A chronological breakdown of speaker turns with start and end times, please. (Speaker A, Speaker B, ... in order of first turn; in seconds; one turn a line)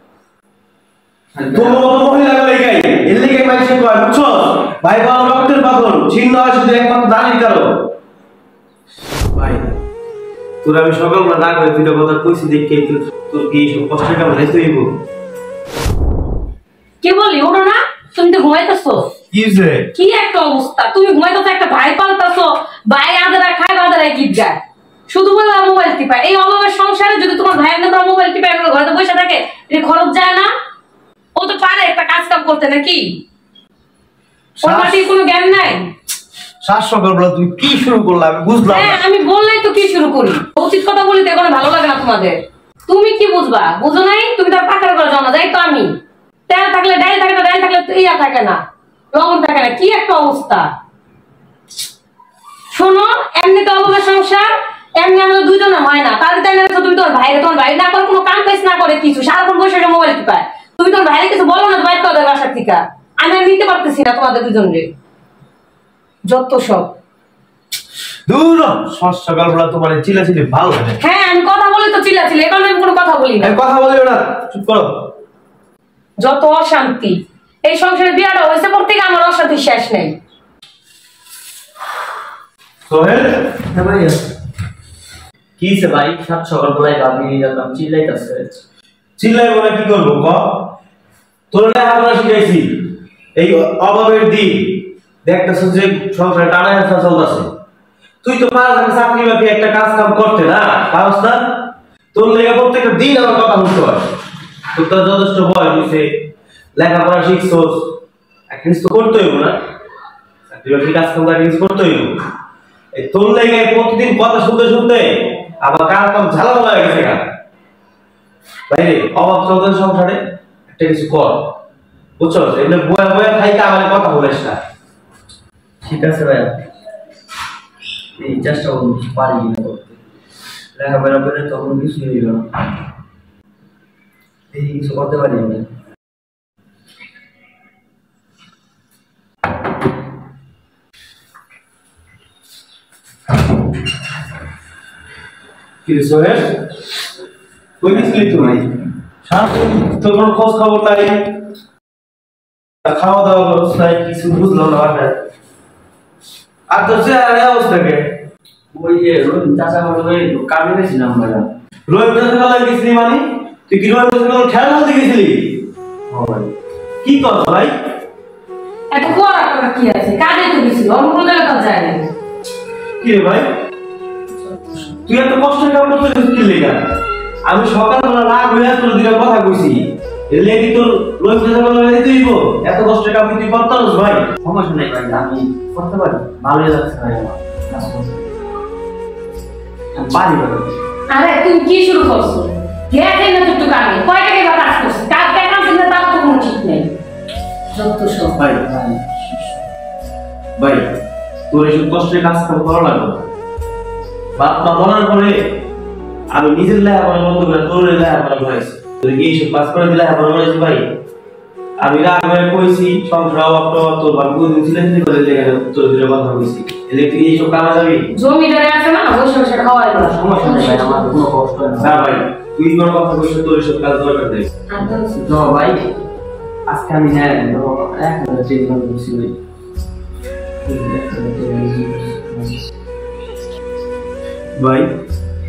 Speaker A: 1.3-1.9
Speaker B: 1.5-7.7
Speaker B: 9.3-9.8
Speaker B: 10.6-14.9
Speaker C: 17.0-19.1
Speaker B: 19.3-19.9
Speaker C: 19.9-30.5
Speaker C: 31.3-33.2
Speaker B: 34.6-35.0
Speaker C: 34.6-35.9
Speaker B: 36.6-39.0
Speaker C: 38.7-42.4
Speaker C: 42.9-45.9
Speaker C: 46.5-48.6
Speaker C: 49.1-50.7
Speaker C: 52.7-64.9
Speaker C: 66.2-66.9
Speaker B: 68.3-71.0
Speaker C: 71.0-73.6
Speaker B: 73.4-74.9
Speaker C: 76.2-80.1
Speaker B: 82.9-83.5
Speaker A: 83.7-84.2
Speaker A: 85.6-88.6
Speaker B: 89.2-90.4
Speaker B: 91.5-92.7
Speaker B: 93.3-97.5
Speaker B: 98.2-101.4
Speaker B: 102.1-104.0
Speaker B: 104.7-106.1
Speaker B: 106.8-107.9
Speaker B: 108.5-109.6
Speaker B: 110.5-112.1
Speaker B: 113.0-117.2
Speaker B: 118.7-121.4
Speaker B: 122.2-124.6
Speaker A: 125.8-126.6
Speaker A: 128.2-130.0
Speaker A: 130.7-132.5
Speaker A: 134.5-135.7
Speaker B: 145.8-146.4
Speaker B: 147.8-148.7
Speaker A: 147.9-148.5
Speaker B: 149.2-151.3
Speaker B: 152.8-155.1
Speaker B: 156.7-158.1
Speaker A: 158.7-161.5
Speaker B: 161.9-165.6
Speaker A: 166.1-166.4
Speaker B: 167.0-167.7
Speaker C: 168.9-172.0
Speaker B: 173.0-173.5
Speaker B: 175.0-176.8
Speaker B: 177.4-179.8
Speaker B: 180.3-184.3
Speaker A: 184.4-188.2
Speaker A: 189.9-190.8
Speaker C: 191.1-196.9
Speaker C: 197.7-198.3
Speaker B: 198.4-198.7
Speaker A: 198.6-199.5
Speaker B: 200.6-200.8
Speaker B: 201.5-203.3
Speaker B: 204.3-205.4
Speaker B: 206.3-210.8
Speaker B: 211.8-218.1
Speaker C: 218.1-221.1
Speaker A: 220.1-222.0
Speaker B: 221.8-224.5
Speaker C: 224.7-225.1
Speaker A: 224.8-225.9
Speaker A: 226.7-229.3
Speaker A: 230.6-232.6
Speaker B: 234.5-234.9